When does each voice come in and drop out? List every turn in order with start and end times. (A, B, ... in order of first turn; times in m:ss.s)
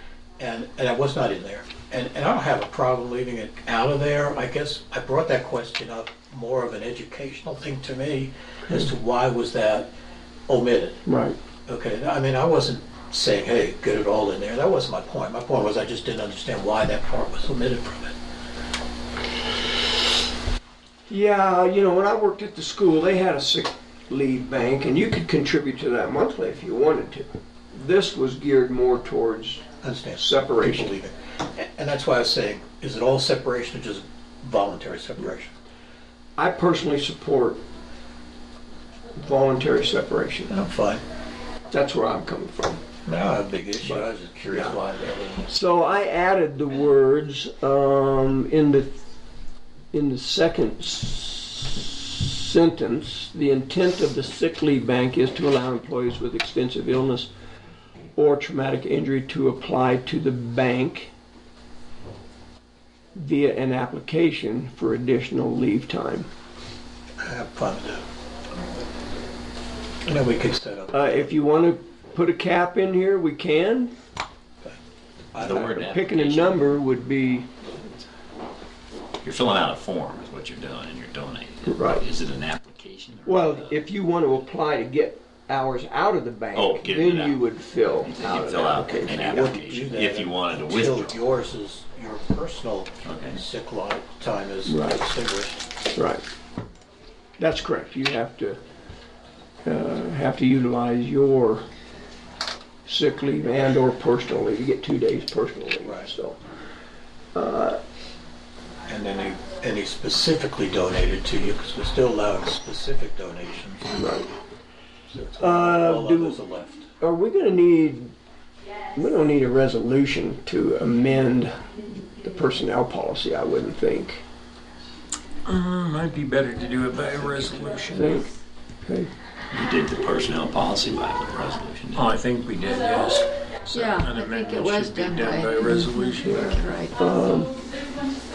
0:00.4-0:09.9 A
0:10.5-0:11.0 A
0:11.0-0:11.4 B
0:11.7-0:18.1 A
0:21.1-0:29.7 B
0:29.8-0:35.5 A
0:30.2-0:31.0 B
0:36.4-0:37.6 B
0:39.2-0:40.5 B
0:40.5-0:41.0 A
0:41.7-0:42.8 B
0:43.0-0:45.5 A
0:43.8-0:44.8 B
0:45.4-0:49.0 B
0:49.9-0:57.3 B
0:58.2-1:01.1 B
1:03.2-1:06.3 B
1:07.2-1:08.0 A
1:10.0-1:11.6 A
1:10.9-1:13.9 B
1:15.3-1:16.8 C
1:15.4-1:17.5 B
1:19.2-1:23.8 C
1:21.6-1:22.0 B
1:23.2-1:29.4 B
1:26.5-1:27.4 C
1:28.0-1:31.2 C
1:29.0-1:35.6 A
1:33.0-1:33.4 C
1:34.7-1:35.0 B
1:35.9-1:36.2 B
1:37.4-1:38.6 B
1:39.6-1:41.6 B
1:42.8-1:46.4 B
1:45.8-1:46.1 A
1:47.3-1:47.8 B
1:48.8-1:54.0 A
1:53.9-1:54.3 B
1:55.1-1:56.9 A
1:55.4-1:56.4 B
1:57.0-1:58.1 B
1:58.9-2:01.6 B
2:02.2-2:04.2 B
2:05.4-2:08.2 D
2:06.9-2:08.0 C
2:07.9-2:08.3 B
2:08.8-2:09.1 B
2:09.5-2:12.1 C
2:11.9-2:16.6 D
2:13.7-2:17.1 E
2:17.0-2:17.5 B